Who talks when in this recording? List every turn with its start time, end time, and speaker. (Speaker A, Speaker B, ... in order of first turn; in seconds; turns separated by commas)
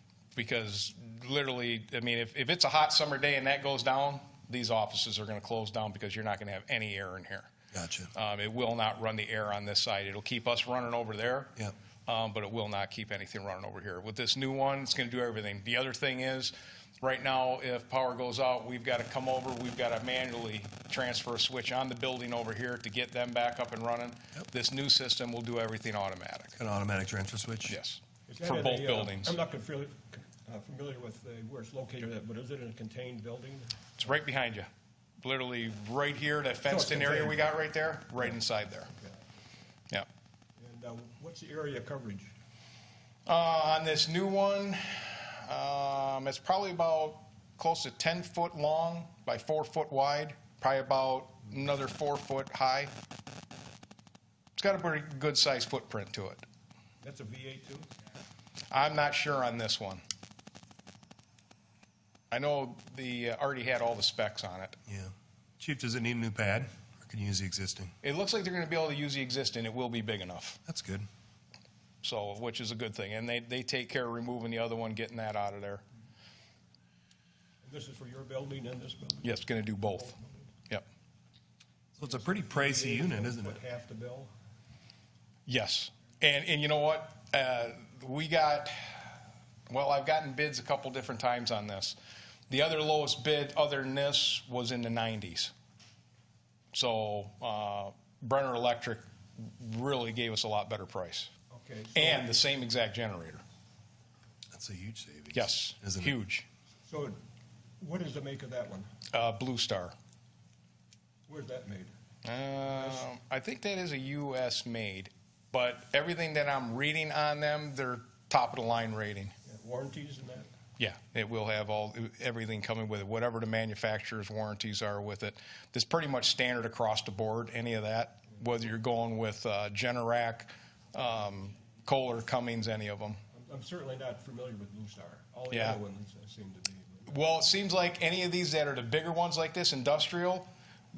Speaker A: 0.3-7.5, Speaker B: 7.7-8.1, Speaker A: 8.1-26.6, Speaker B: 26.6-27.8, Speaker A: 27.7-29.4, Speaker C: 28.3-33.7, Speaker A: 34.0-34.7, Speaker A: 35.2-38.9, Speaker C: 36.7-37.5, Speaker C: 40.6-42.3, Speaker A: 43.2-52.9, Speaker A: 54.6-56.4, Speaker C: 57.0-57.9, Speaker A: 58.7-60.0, Speaker A: 62.3-64.8, Speaker B: 64.9-67.9, Speaker A: 68.0-70.6, Speaker B: 70.7-71.1, Speaker A: 72.0-75.8, Speaker C: 77.6-79.3, Speaker A: 79.2-80.2, Speaker C: 80.0-80.4, Speaker B: 82.0-83.6, Speaker C: 82.0-84.3, Speaker A: 85.5-89.1, Speaker A: 89.7-92.0, Speaker A: 92.5-95.5, Speaker A: 96.7-101.3, Speaker C: 101.5-102.3, Speaker A: 102.0-103.4, Speaker B: 104.5-106.1, Speaker A: 105.3-106.5, Speaker C: 106.8-107.2, Speaker C: 107.8-108.9, Speaker A: 109.1-110.0, Speaker C: 111.3-111.9, Speaker A: 112.2-119.3, Speaker C: 119.5-120.5, Speaker A: 120.8-133.2, Speaker C: 133.3-137.1, Speaker A: 135.5-135.8, Speaker A: 137.1-140.5